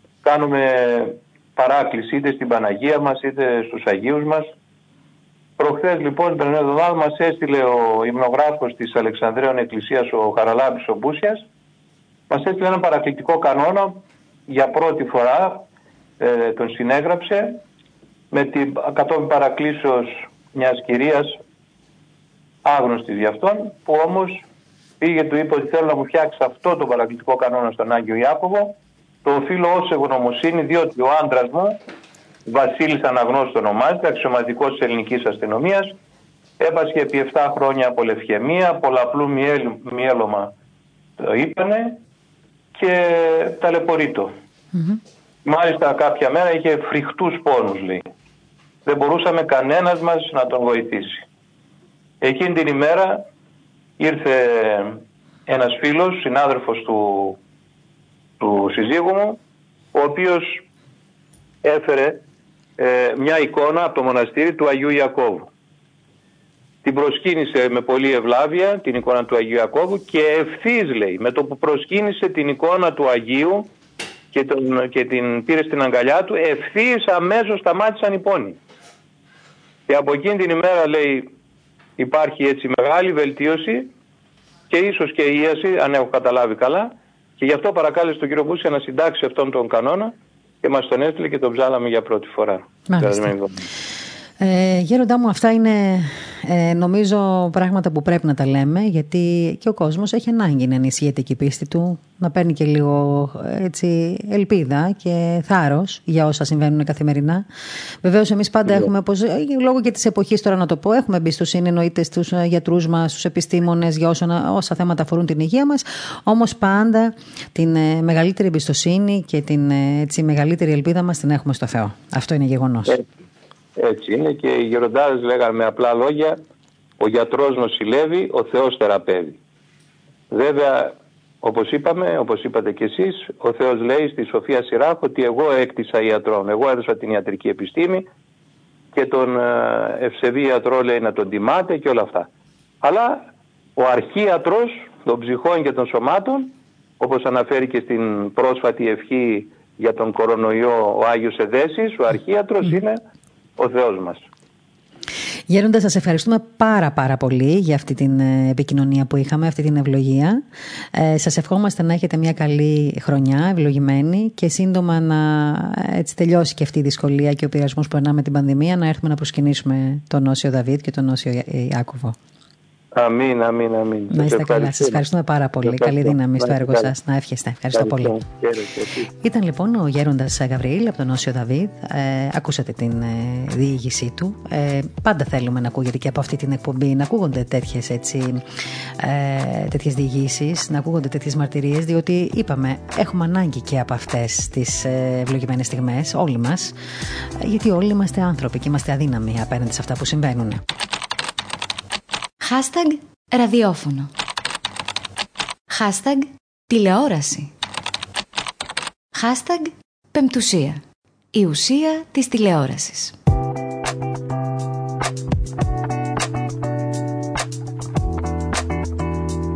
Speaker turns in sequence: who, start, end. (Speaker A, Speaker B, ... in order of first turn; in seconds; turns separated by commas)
Speaker A: 0.2-4.5, Speaker A: 5.6-11.5, Speaker A: 12.3-15.7, Speaker A: 16.2-17.6, Speaker A: 18.3-21.4, Speaker A: 22.6-24.4, Speaker A: 25.0-31.8, Speaker A: 32.5-36.0, Speaker A: 36.6-40.5, Speaker A: 41.2-42.0, Speaker A: 42.7-44.3, Speaker A: 45.5-48.1, Speaker A: 48.9-51.3, Speaker A: 52.2-53.3, Speaker A: 54.0-57.4, Speaker A: 58.4-59.4, Speaker A: 59.9-60.6, Speaker A: 61.6-62.2, Speaker A: 62.8-65.5, Speaker A: 66.8-73.7, Speaker A: 74.3-78.6, Speaker A: 79.9-81.3, Speaker A: 82.0-83.9, Speaker A: 84.7-93.7, Speaker B: 92.9-93.3, Speaker B: 94.4-107.5, Speaker B: 108.0-123.0, Speaker A: 123.8-126.4, Speaker A: 127.0-129.4, Speaker A: 130.3-138.1, Speaker A: 138.9-142.3, Speaker A: 142.8-153.0, Speaker A: 153.6-154.2, Speaker B: 155.5-160.4, Speaker B: 160.9-172.2, Speaker A: 172.9-175.0, Speaker B: 174.1-178.2, Speaker A: 175.6-176.9, Speaker A: 177.7-179.1, Speaker B: 179.2-188.4, Speaker B: 189.0-196.8, Speaker B: 197.4-200.6, Speaker C: 202.4-204.1, Speaker C: 205.7-207.5, Speaker C: 209.1-210.8, Speaker C: 211.3-213.2